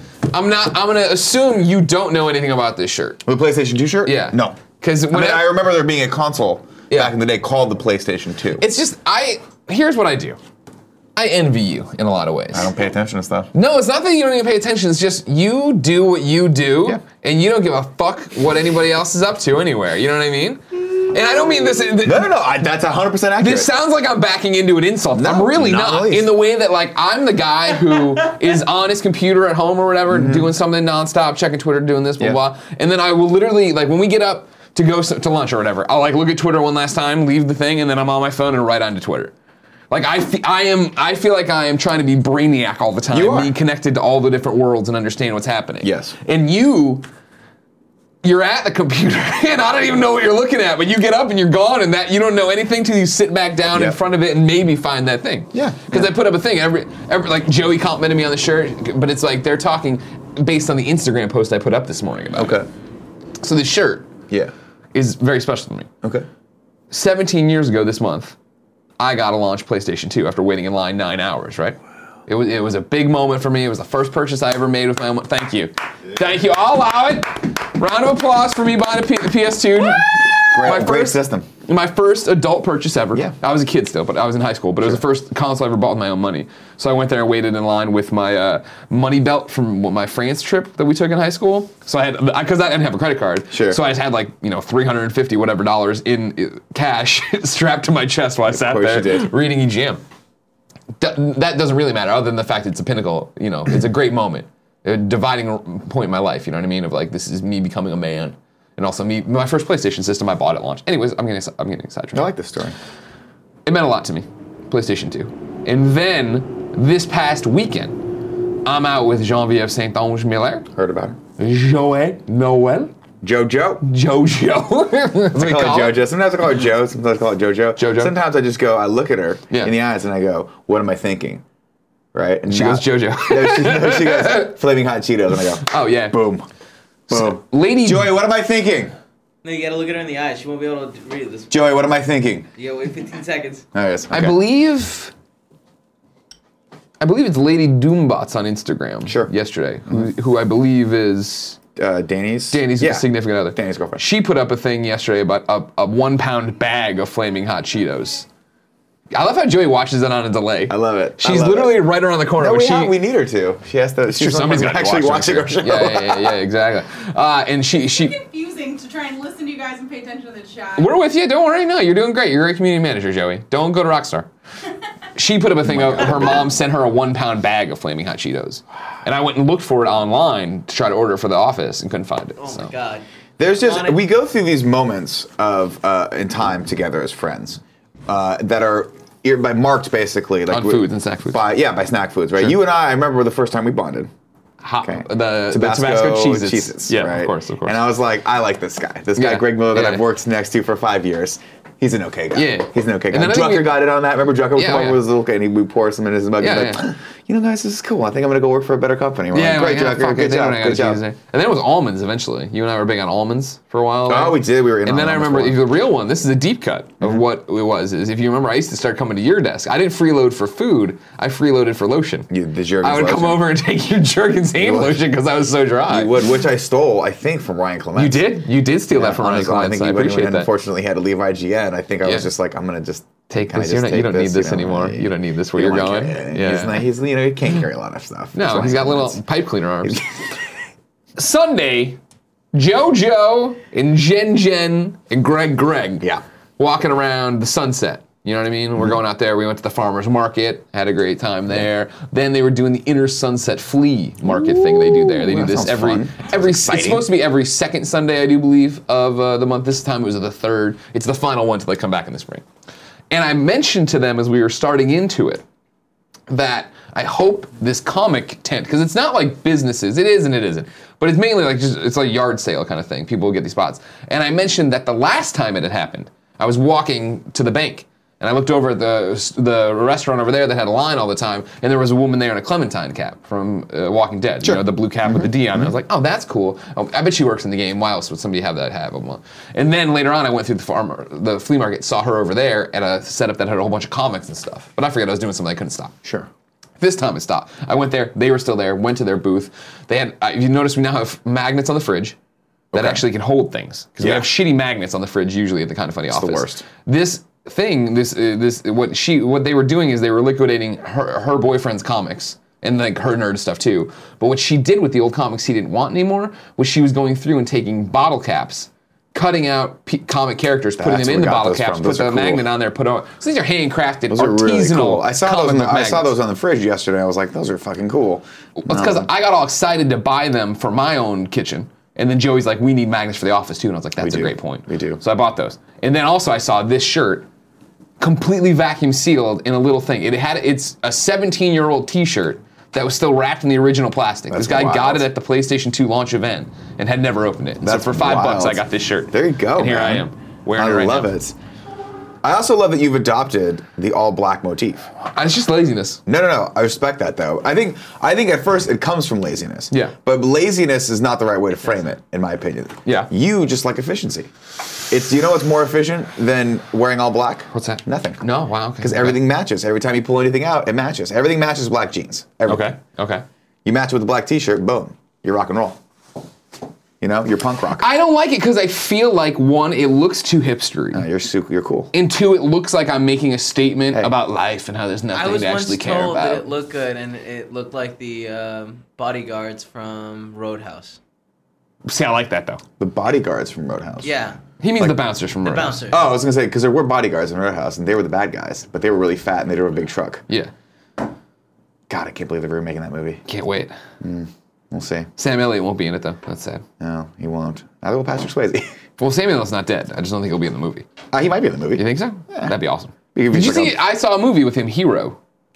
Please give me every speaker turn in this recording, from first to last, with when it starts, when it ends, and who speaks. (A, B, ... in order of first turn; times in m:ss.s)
0:00.3-0:03.2 A
0:03.2-0:08.6 B
0:04.0-0:05.5 A
0:08.6-0:10.4 A
0:11.2-0:12.7 A
0:12.5-0:13.5 B
0:13.5-0:22.3 A
0:22.0-0:23.7 B
0:23.4-0:39.3 A
0:25.1-0:26.3 B
0:30.1-0:30.5 B
0:39.9-0:47.0 A
0:43.1-0:43.5 B
0:45.8-0:46.1 B
0:48.2-1:02.6 A
0:53.7-0:54.0 B
0:55.5-0:56.1 B
1:02.4-1:02.7 B
1:03.4-1:04.1 A
1:04.9-1:05.9 A
1:06.9-1:08.4 A
1:09.0-1:40.0 A
1:20.5-1:21.5 B
1:33.5-1:33.8 B
1:38.5-1:39.3 B
1:41.0-1:52.3 A
1:52.1-1:52.8 B
1:53.6-1:58.0 A
1:58.6-2:00.7 A
2:00.7-2:01.2 B
2:01.4-2:02.9 A
2:03.2-2:03.8 B
2:03.8-2:06.0 A
2:05.3-2:11.4 B
2:07.8-2:08.1 A
2:12.1-2:16.4 B
2:12.5-2:14.5 A
2:15.6-2:16.2 A
2:17.1-2:18.9 B
2:17.1-2:18.1 A
2:19.4-2:21.5 C
2:21.5-2:22.5 B
2:22.6-2:23.6 C
2:23.7-2:24.4 B
2:24.1-2:25.1 A
2:27.0-2:31.6 A
2:29.0-2:29.3 B
2:31.8-2:34.0 B
2:32.5-2:38.2 A
2:39.1-2:42.9 A
2:40.7-2:41.8 B
2:42.4-2:46.4 B
2:44.1-2:48.2 A
2:47.8-2:50.9 D
2:50.8-2:54.3 A
2:55.1-3:02.7 A
2:55.6-2:56.5 B
3:02.4-3:03.0 C
3:03.4-3:14.1 B
3:03.6-3:04.0 C
3:10.5-3:11.4 A
3:14.6-3:17.8 A
3:14.8-3:31.0 B
3:19.2-3:20.0 A
3:22.3-3:23.8 A
3:24.5-3:25.0 A
3:26.4-3:26.8 A
3:29.3-3:42.3 A
3:34.1-3:35.6 B
3:42.3-3:43.4 B
3:42.8-3:46.1 A
3:44.5-3:45.0 B
3:45.9-3:59.2 B
3:48.0-3:50.5 A
3:53.3-3:56.9 A
3:58.3-4:00.0 A
3:59.8-4:00.1 B
4:01.2-4:02.0 A
4:02.5-4:06.0 A
4:06.6-4:22.4 A
4:14.2-4:17.1 B
4:23.1-4:25.4 A
4:26.3-4:55.9 A
4:44.4-4:45.3 B
4:56.0-4:56.3 B
4:56.8-5:02.2 A
5:02.7-5:03.0 B
5:02.7-5:26.1 A
5:04.0-5:04.3 B
5:06.1-5:06.6 B
5:20.8-5:22.5 B
5:24.1-5:29.1 B
5:28.6-5:37.3 A
5:34.0-5:35.0 B
5:38.0-5:51.1 A
5:44.3-5:45.1 B
5:47.6-5:51.4 B
5:52.2-5:54.9 B
5:55.1-5:56.0 A
5:56.0-6:04.3 B
5:59.7-5:59.9 A
6:02.8-6:03.1 A
6:04.9-6:08.2 B
6:07.5-6:09.2 A
6:08.8-6:12.7 B
6:12.4-6:13.2 A
6:13.6-6:15.8 B
6:17.0-6:17.8 B
6:17.8-6:21.0 A
6:20.9-6:21.9 B
6:21.9-6:26.4 A
6:25.1-6:31.0 C
6:31.8-6:32.6 A
6:32.8-6:34.1 B
6:34.0-6:34.4 C
6:34.6-6:35.8 A
6:35.4-6:36.1 C
6:35.9-6:40.2 B
6:41.9-6:43.2 B
6:43.2-6:43.7 A
6:44.0-6:45.1 B
6:45.2-6:46.6 A
6:46.8-6:48.7 B
6:49.0-6:50.8 A
6:51.1-6:52.5 B
6:51.8-6:55.2 A
6:53.1-6:53.8 B